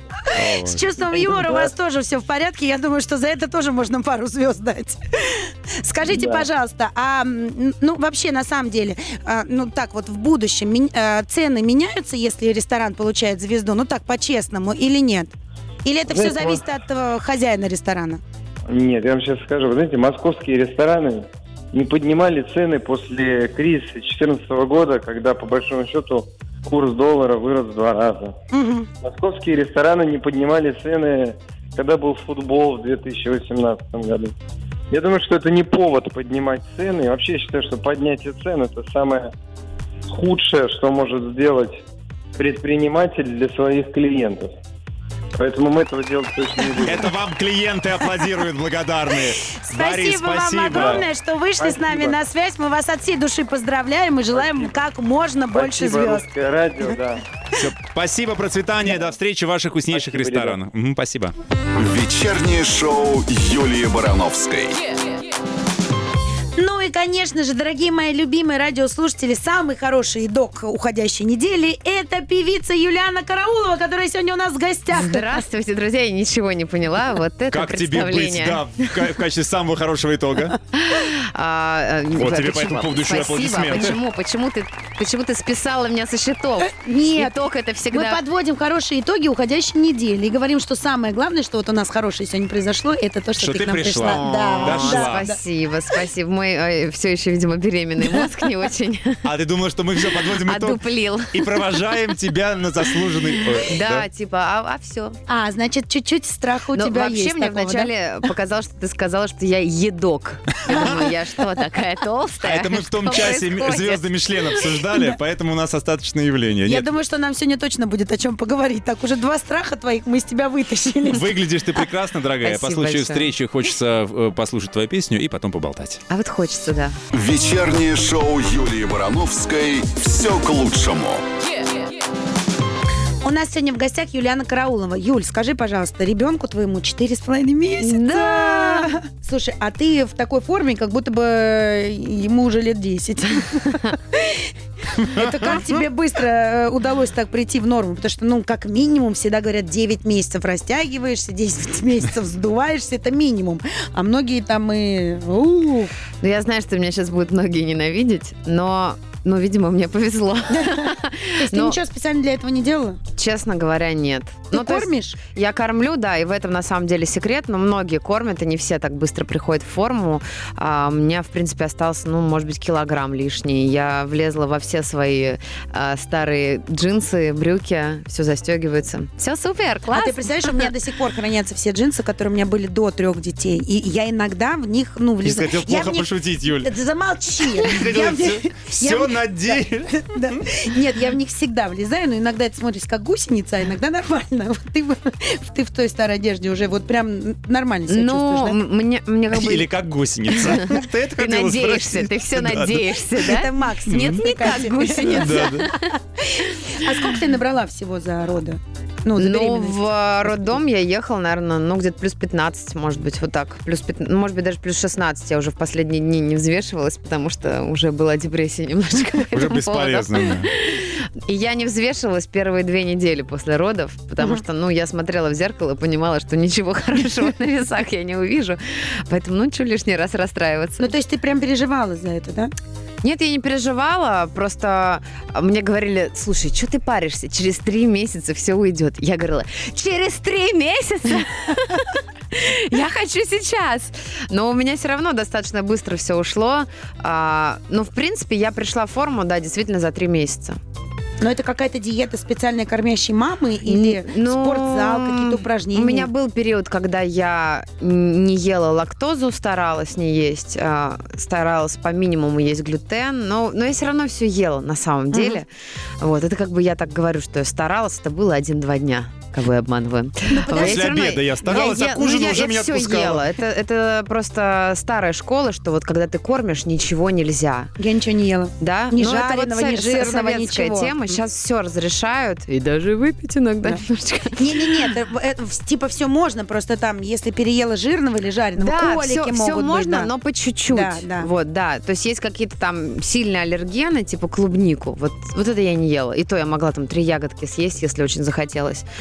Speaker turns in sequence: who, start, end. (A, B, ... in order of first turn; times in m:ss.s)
0:00.2-0:15.3 A
0:00.3-0:00.9 B
0:01.1-0:01.7 C
0:06.1-0:06.5 C
0:15.8-0:18.2 A
0:16.1-0:16.6 C
0:18.7-0:28.4 C
0:28.5-0:28.9 A
0:29.0-0:34.3 C
0:34.9-0:39.3 C
0:40.1-0:41.8 C
0:42.4-0:44.5 C
0:45.4-0:47.1 C
0:46.8-0:51.1 B
0:49.6-0:56.2 A
0:50.7-0:51.1 C
0:51.6-0:52.2 C
0:54.3-0:54.7 C
0:55.5-0:57.2 C
0:57.5-1:01.4 B
0:59.9-1:00.6 C
1:01.8-1:04.8 D
1:06.6-1:15.4 A
1:14.9-1:18.9 E
1:17.5-1:20.6 B
1:20.7-1:28.2 E
1:22.1-1:24.0 B
1:26.6-1:35.4 A
1:33.4-1:35.3 B
1:34.0-1:39.2 E
1:39.2-1:44.1 B
1:40.4-1:41.8 E
1:43.6-1:45.2 E
1:45.3-1:47.9 A
1:46.7-1:54.1 E
1:50.7-1:51.0 A
1:52.4-1:56.9 B
1:56.6-2:01.3 A
2:01.1-2:06.0 B
2:02.4-2:03.3 E
2:06.1-2:07.0 E
2:07.1-2:11.2 D
2:13.2-2:35.9 A
2:17.8-2:18.9 E
2:25.0-2:25.6 B
2:36.2-2:41.8 E
2:40.5-2:43.0 A
2:43.2-3:00.7 E
2:44.5-2:45.2 A
2:59.9-3:18.6 A
3:05.2-3:06.7 B
3:07.4-3:10.1 B
3:17.9-3:19.7 E
3:19.3-3:23.2 B
3:20.3-3:25.9 E
3:23.2-3:30.6 A
3:23.9-3:24.3 B
3:24.9-3:25.7 B
3:29.2-3:50.9 E
3:39.3-3:40.5 B
3:50.8-3:52.5 A
3:53.0-4:10.6 E
4:11.2-4:16.1 A
4:13.6-4:25.5 E
4:25.1-4:25.4 A
4:26.0-4:37.7 E
4:30.3-4:31.0 A
4:30.5-4:33.4 B
4:37.8-4:41.2 A
4:38.6-4:44.8 E
4:44.4-4:50.1 A
4:48.6-4:58.8 E
4:50.7-4:51.3 A